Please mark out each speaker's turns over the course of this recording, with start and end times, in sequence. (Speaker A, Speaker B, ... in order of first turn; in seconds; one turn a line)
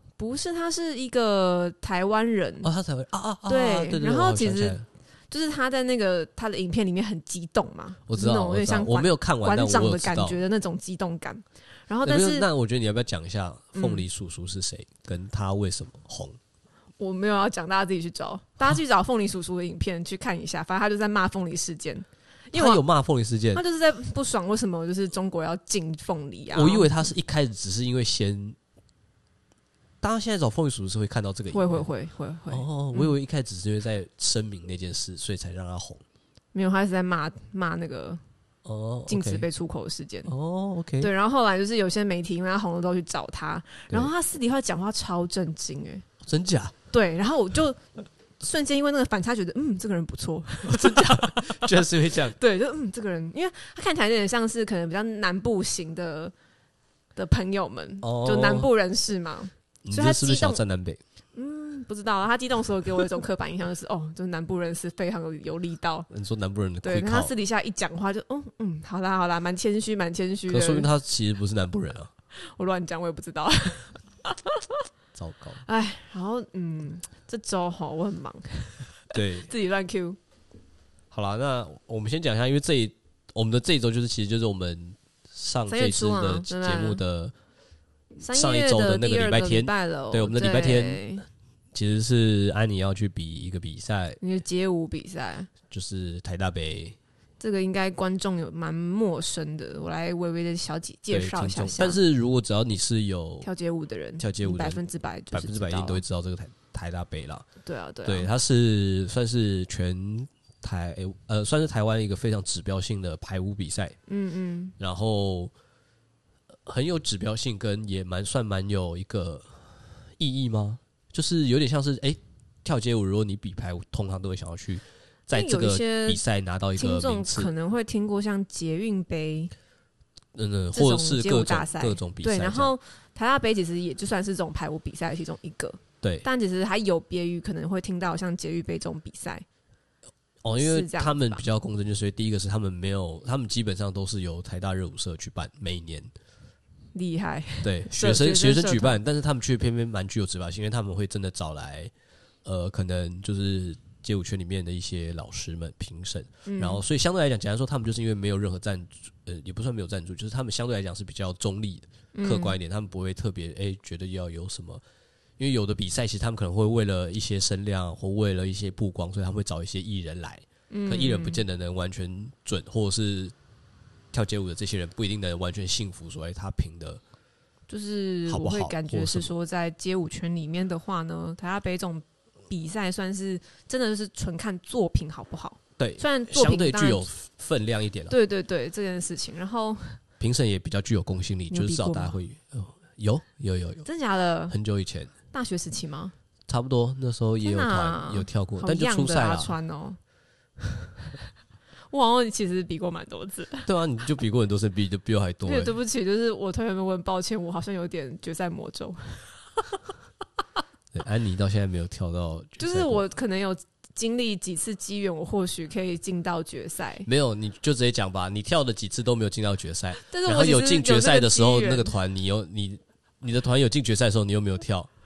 Speaker A: 0.2-2.7
Speaker B: 2.6-4.8
Speaker A: 3.5-4.8
Speaker A: 5.3-12.5
Speaker B: 8.1-10.4
Speaker B: 12.0-16.4
Speaker A: 13.7-14.0
Speaker A: 17.0-22.8
Speaker B: 22.5-23.6
Speaker A: 23.5-27.0
Speaker B: 26.5-28.6
Speaker B: 30.0-31.8
Speaker A: 31.5-33.1
Speaker B: 32.5-36.0
Speaker A: 36.5-38.2
Speaker B: 38.6-39.5
Speaker A: 39.1-40.3
Speaker B: 40.2-41.1
Speaker A: 41.0-46.0
Speaker B: 46.2-46.7
Speaker A: 46.9-47.9
Speaker A: 48.4-51.6
Speaker B: 50.6-52.4
Speaker A: 52.3-56.3
Speaker A: 57.1-60.6
Speaker B: 58.0-58.7
Speaker B: 59.9-61.0
Speaker A: 61.3-66.1
Speaker B: 66.1-67.3
Speaker A: 66.8-70.9
Speaker B: 70.5-72.1
Speaker A: 72.3-74.7
Speaker B: 75.1-75.6
Speaker A: 75.6-80.2
Speaker B: 79.1-79.5
Speaker B: 81.1-87.3
Speaker A: 85.7-87.0
Speaker A: 88.2-91.2
Speaker B: 88.3-91.0
Speaker B: 91.7-94.2
Speaker A: 94.2-95.5
Speaker B: 95.7-97.0
Speaker A: 97.4-102.0
Speaker B: 101.1-103.5
Speaker A: 103.4-106.0
Speaker B: 104.2-104.8
Speaker B: 105.3-107.5
Speaker A: 107.6-108.3
Speaker B: 108.0-114.0
Speaker A: 114.1-114.7
Speaker B: 114.8-115.5
Speaker B: 116.7-127.5
Speaker A: 125.3-126.2
Speaker A: 126.8-129.5
Speaker B: 130.3-132.8
Speaker A: 130.7-139.4
Speaker B: 140.4-146.1
Speaker A: 140.5-141.4
Speaker A: 146.9-149.0
Speaker B: 147.6-151.9
Speaker B: 152.4-164.8
Speaker A: 156.4-156.8
Speaker A: 162.1-162.6
Speaker B: 165.4-173.3
Speaker A: 170.7-171.4
Speaker B: 174.1-177.0
Speaker A: 177.7-187.1
Speaker B: 178.3-179.3
Speaker B: 185.8-188.1
Speaker A: 188.1-190.0
Speaker B: 190.2-193.8
Speaker A: 191.5-192.1
Speaker A: 193.8-194.6
Speaker B: 194.5-195.1
Speaker A: 195.3-196.1
Speaker B: 196.5-199.6
Speaker A: 197.4-200.0
Speaker A: 201.9-203.7
Speaker B: 203.7-205.7
Speaker A: 205.4-209.8
Speaker B: 210.9-213.0
Speaker A: 212.6-217.1
Speaker B: 217.1-224.9
Speaker A: 220.0-221.9